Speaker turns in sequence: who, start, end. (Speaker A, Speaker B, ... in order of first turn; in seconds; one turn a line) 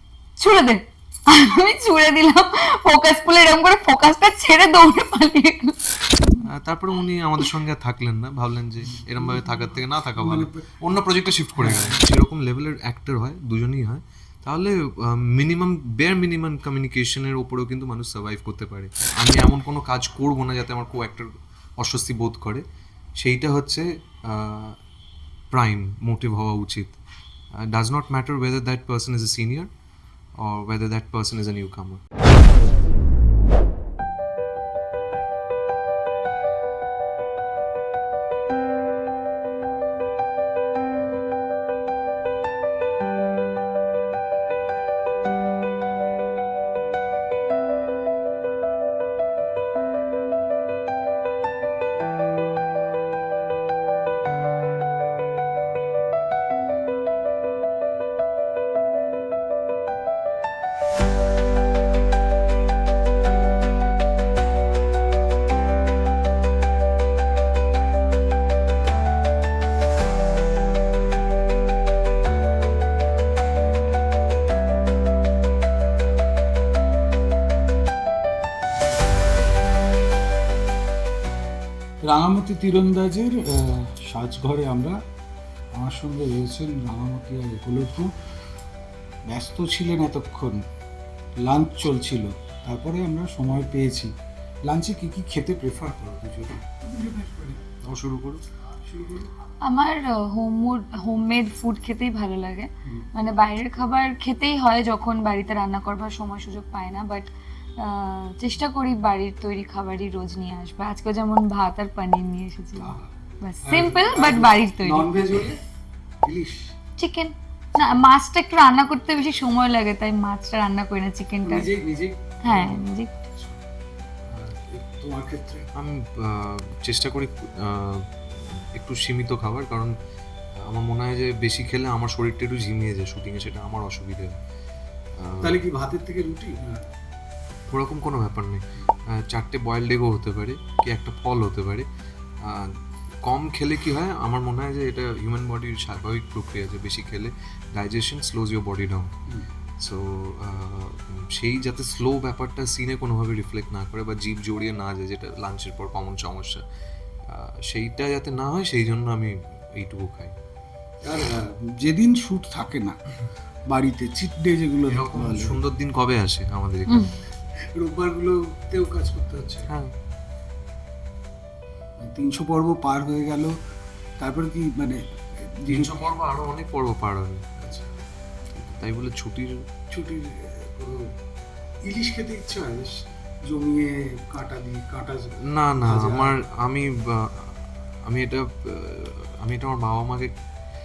Speaker A: 0.4-5.8
Speaker B: 6.4-21.3
Speaker C: 8.9-9.6
Speaker C: 10.1-10.7
Speaker C: 11.6-12.0
Speaker B: 21.8-22.6
Speaker B: 23.2-24.8
Speaker B: 25.5-26.9
Speaker B: 27.7-29.7
Speaker B: 30.4-32.0
Speaker C: 82.0-85.0
Speaker C: 85.7-88.1
Speaker C: 89.2-90.6
Speaker C: 91.4-94.1
Speaker C: 94.6-97.7
Speaker B: 97.8-98.4
Speaker C: 98.8-99.3
Speaker A: 99.6-115.1
Speaker C: 112.8-113.1
Speaker C: 113.6-115.6
Speaker C: 116.2-116.7
Speaker A: 117.0-121.7
Speaker C: 121.4-123.5
Speaker A: 122.5-123.1
Speaker C: 124.3-125.7
Speaker B: 125.7-129.9
Speaker B: 130.6-134.4
Speaker B: 135.2-135.6
Speaker C: 135.4-136.8
Speaker B: 137.7-141.8
Speaker B: 142.4-149.1
Speaker B: 149.8-156.6
Speaker B: 157.3-160.3
Speaker C: 161.0-163.0
Speaker C: 163.7-165.6
Speaker B: 164.9-167.2
Speaker A: 166.9-167.2
Speaker C: 167.7-169.7
Speaker B: 169.7-169.9
Speaker C: 172.0-173.5
Speaker C: 174.2-176.0
Speaker B: 175.7-177.4
Speaker B: 178.5-179.6
Speaker C: 179.9-181.1
Speaker C: 181.8-186.4
Speaker B: 185.4-190.3